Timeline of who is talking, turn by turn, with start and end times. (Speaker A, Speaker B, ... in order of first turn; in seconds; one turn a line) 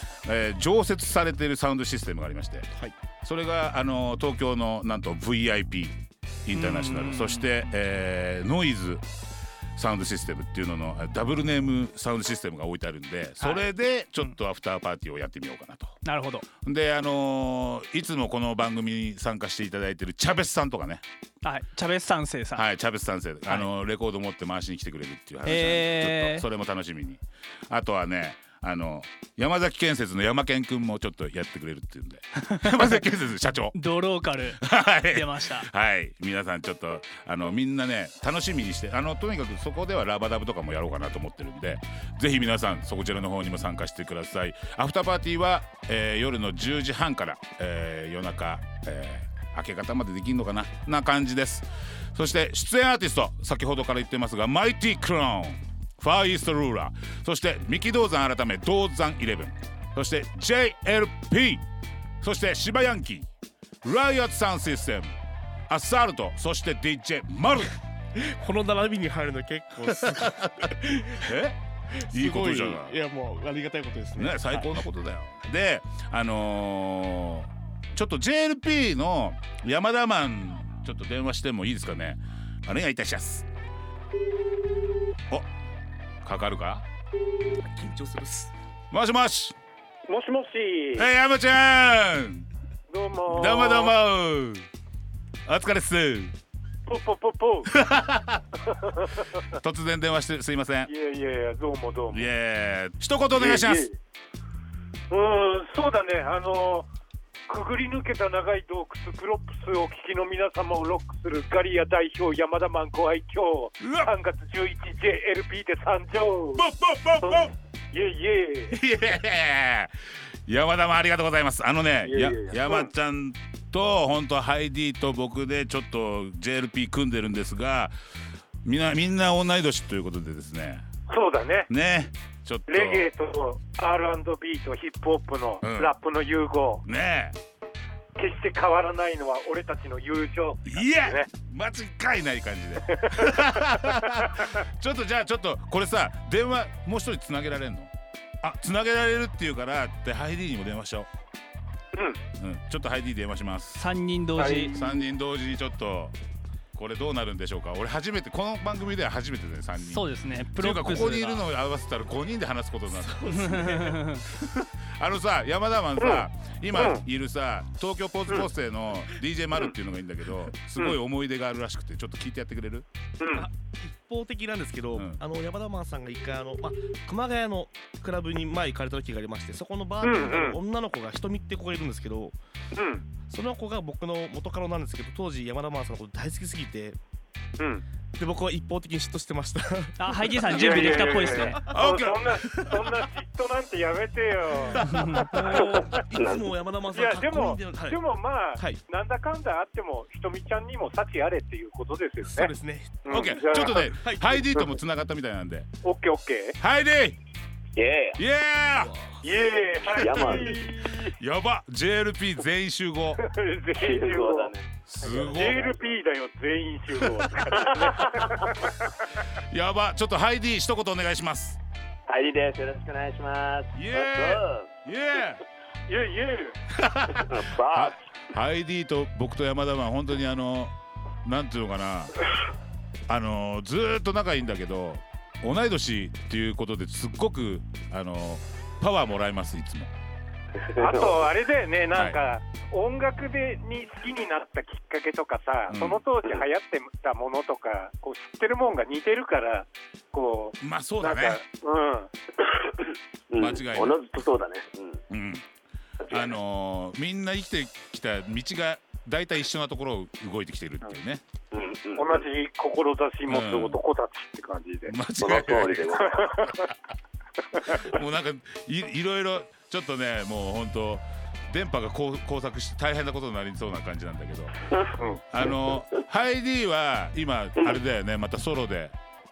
Speaker A: 0.2-2.7
Speaker A: 3.2-9.1
Speaker B: 6.5-7.7
Speaker A: 9.8-16.0
Speaker B: 13.4-14.3
Speaker B: 16.1-16.5
Speaker A: 16.6-21.0
Speaker B: 21.4-22.6
Speaker A: 22.6-33.8
Speaker B: 25.4-26.5
Speaker B: 32.5-33.0
Speaker B: 33.7-35.7
Speaker A: 34.6-61.6
Speaker A: 62.2-63.3
Speaker A: 63.8-65.2
Speaker A: 65.7-67.8
Speaker C: 68.2-71.2
Speaker A: 70.1-73.0
Speaker C: 72.0-74.9
Speaker A: 74.2-83.5
Speaker A: 86.2-86.8
Speaker C: 87.6-88.5
Speaker A: 88.9-89.5
Speaker D: 90.1-91.1
Speaker A: 91.0-92.5
Speaker D: 92.9-94.0
Speaker A: 93.3-94.7
Speaker A: 95.5-96.3
Speaker D: 96.9-97.7
Speaker A: 97.7-98.4
Speaker D: 98.7-99.3
Speaker A: 99.4-100.9
Speaker D: 100.9-102.3
Speaker A: 102.1-103.9
Speaker D: 103.3-104.0
Speaker D: 105.1-106.9
Speaker D: 107.5-116.6
Speaker A: 113.8-114.1
Speaker A: 116.5-117.5
Speaker D: 117.2-118.8
Speaker A: 118.7-119.9
Speaker A: 120.5-128.0
Speaker D: 122.0-122.9
Speaker A: 128.6-130.8
Speaker D: 131.1-131.7
Speaker A: 131.7-133.1
Speaker D: 132.7-136.8
Speaker A: 135.6-135.9
Speaker A: 136.8-137.4
Speaker D: 138.2-141.3
Speaker A: 140.7-147.9
Speaker D: 142.9-144.0
Speaker A: 148.4-151.1
Speaker A: 152.4-153.8
Speaker B: 153.7-154.7
Speaker E: 154.4-155.0
Speaker A: 154.7-156.2
Speaker A: 156.8-172.9
Speaker B: 159.8-161.4
Speaker C: 162.9-163.9
Speaker B: 163.3-164.2
Speaker D: 173.2-173.5
Speaker C: 173.2-182.4
Speaker D: 180.0-180.6
Speaker D: 182.8-183.0
Speaker C: 183.3-187.0
Speaker D: 187.6-187.8
Speaker C: 188.2-191.7
Speaker B: 190.0-191.6
Speaker D: 190.5-194.8
Speaker A: 191.7-192.9
Speaker C: 194.8-198.0
Speaker A: 194.8-195.5
Speaker B: 194.8-195.9
Speaker E: 195.5-196.5
Speaker D: 195.6-196.0
Speaker D: 196.9-202.5
Speaker C: 198.5-198.8
Speaker C: 202.2-204.6
Speaker D: 203.1-203.8
Speaker A: 203.1-205.7
Speaker D: 205.8-206.6
Speaker A: 206.6-207.2
Speaker E: 207.8-208.2
Speaker A: 208.2-208.9
Speaker C: 208.8-209.2
Speaker D: 209.2-211.2
Speaker E: 209.8-210.6
Speaker A: 210.1-210.4
Speaker A: 211.1-213.2
Speaker D: 213.2-214.5
Speaker E: 213.8-215.8
Speaker A: 214.8-215.6
Speaker D: 215.2-218.9
Speaker A: 219.4-221.6
Speaker E: 222.1-224.7
Speaker A: 223.7-225.4
Speaker D: 225.9-226.6
Speaker A: 226.7-232.2
Speaker E: 227.1-228.0
Speaker A: 233.1-239.9
Speaker E: 240.7-241.3
Speaker D: 240.8-252.1
Speaker A: 241.9-242.2
Speaker A: 245.7-246.0
Speaker A: 250.6-251.4
Speaker E: 253.3-255.0
Speaker A: 253.4-254.0
Speaker A: 255.1-255.4
Speaker E: 256.1-256.4
Speaker A: 256.1-261.2
Speaker E: 261.5-262.2
Speaker D: 262.0-265.1
Speaker A: 263.3-263.8
Speaker A: 264.9-266.7
Speaker E: 265.2-266.2
Speaker D: 266.0-266.7
Speaker D: 267.6-267.8
Speaker A: 267.6-274.6
Speaker D: 275.0-275.2
Speaker A: 275.3-279.0